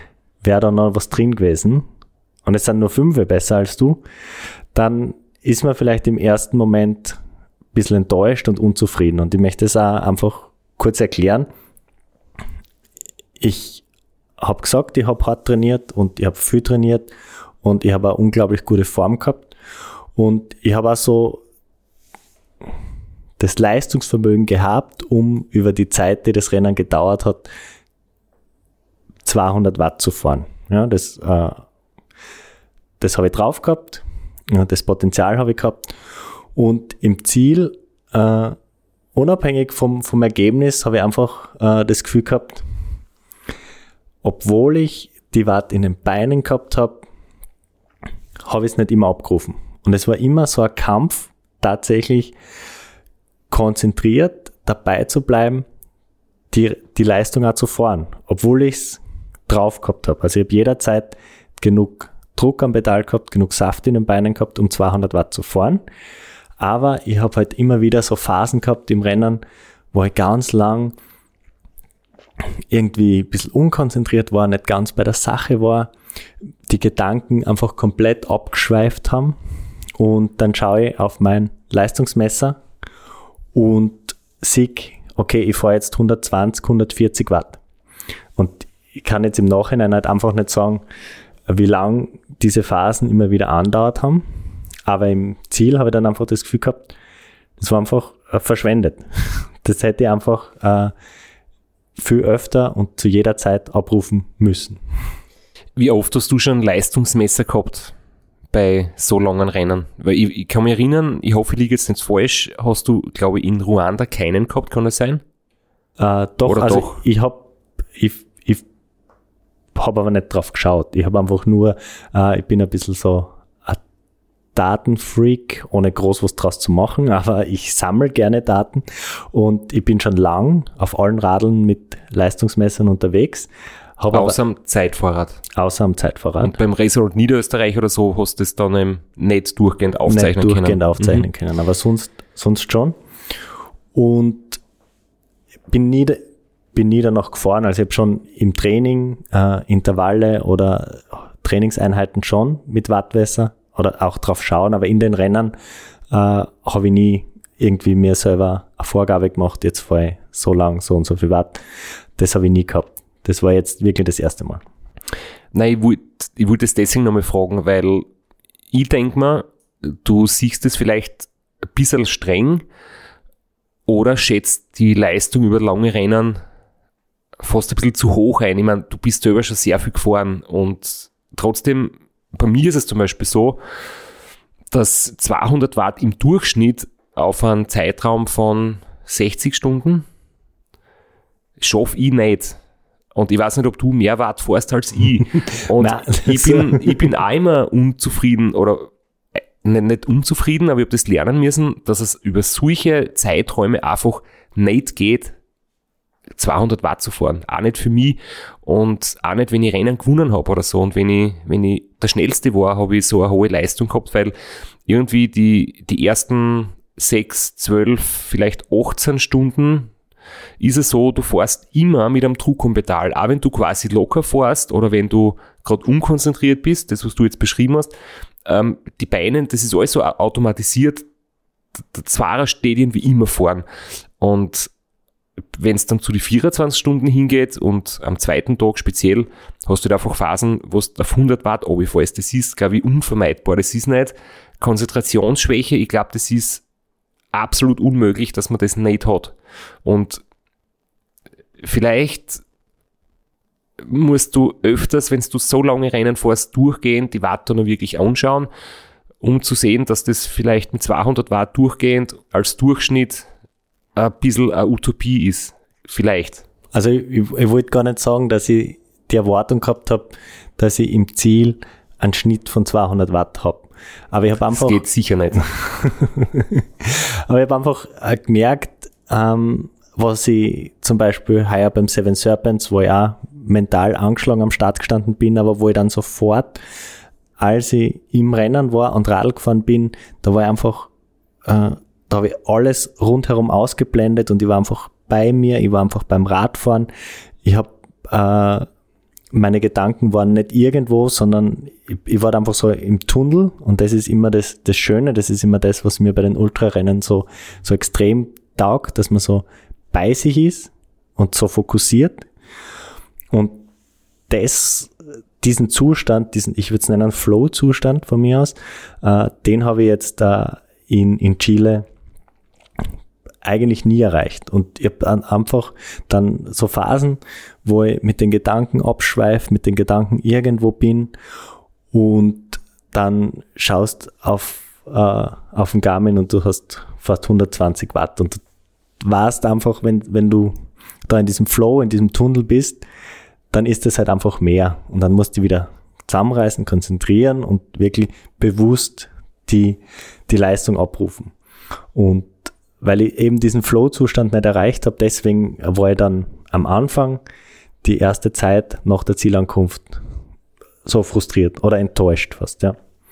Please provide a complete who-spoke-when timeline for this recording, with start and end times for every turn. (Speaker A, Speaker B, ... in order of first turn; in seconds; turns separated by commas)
Speaker A: 0.4-1.9, Speaker A: 2.5-4.0, Speaker A: 4.7-7.2, Speaker A: 7.7-11.5, Speaker A: 13.4-13.8, Speaker A: 14.4-17.1, Speaker A: 17.6-19.5, Speaker A: 20.2-21.4, Speaker A: 23.4-27.5, Speaker A: 29.2-31.6, Speaker A: 33.0-35.9, Speaker A: 36.5-38.6, Speaker A: 39.1-42.6, Speaker A: 44.2-47.1, Speaker A: 48.5-52.3, Speaker A: 53.5-55.7, Speaker A: 56.5-65.8, Speaker A: 66.6-69.4, Speaker A: 69.9-71.0, Speaker A: 72.7-75.9, Speaker A: 76.7-79.4, Speaker A: 80.0-82.6, Speaker A: 83.5-87.6, Speaker A: 88.4-90.8, Speaker A: 91.5-94.2, Speaker A: 94.9-96.9, Speaker A: 97.6-100.9, Speaker A: 102.0-104.8, Speaker B: 105.8-107.9, Speaker B: 108.5-115.2, Speaker A: 116.0-118.7, Speaker B: 116.5-117.0, Speaker A: 119.8-123.8, Speaker A: 124.5-134.4, Speaker B: 134.1-135.4, Speaker A: 135.6-136.6, Speaker B: 136.4-141.3, Speaker A: 140.1-143.0, Speaker A: 143.9-144.6, Speaker A: 145.7-155.6, Speaker A: 156.1-161.6, Speaker A: 162.2-164.6, Speaker B: 165.5-168.1, Speaker B: 168.7-172.7, Speaker B: 173.9-176.4, Speaker B: 177.4-183.6, Speaker B: 184.7-190.1, Speaker B: 191.6-192.6, Speaker B: 193.1-198.9, Speaker A: 195.8-197.1, Speaker B: 199.6-205.4, Speaker B: 206.4-214.3, Speaker B: 214.9-219.9, Speaker B: 220.6-227.9, Speaker B: 228.4-231.1, Speaker B: 231.9-233.6, Speaker B: 234.2-234.7, Speaker B: 235.5-246.6, Speaker B: 247.3-250.2, Speaker B: 251.6-252.4, Speaker B: 253.8-258.5, Speaker B: 259.2-263.3, Speaker B: 264.0-266.4, Speaker A: 266.7-274.8, Speaker B: 274.5-275.4, Speaker A: 275.4-286.6, Speaker A: 287.4-290.9, Speaker A: 291.4-296.9, Speaker A: 297.4-298.7, Speaker A: 299.3-312.3, Speaker A: 313.3-313.7, Speaker A: 314.3-321.9, Speaker A: 323.4-331.1, Speaker A: 331.9-338.4, Speaker A: 339.0-340.6, Speaker A: 341.1-342.8, Speaker A: 343.5-351.3, Speaker A: 351.9-357.2, Speaker A: 357.8-360.0, Speaker A: 360.9-362.8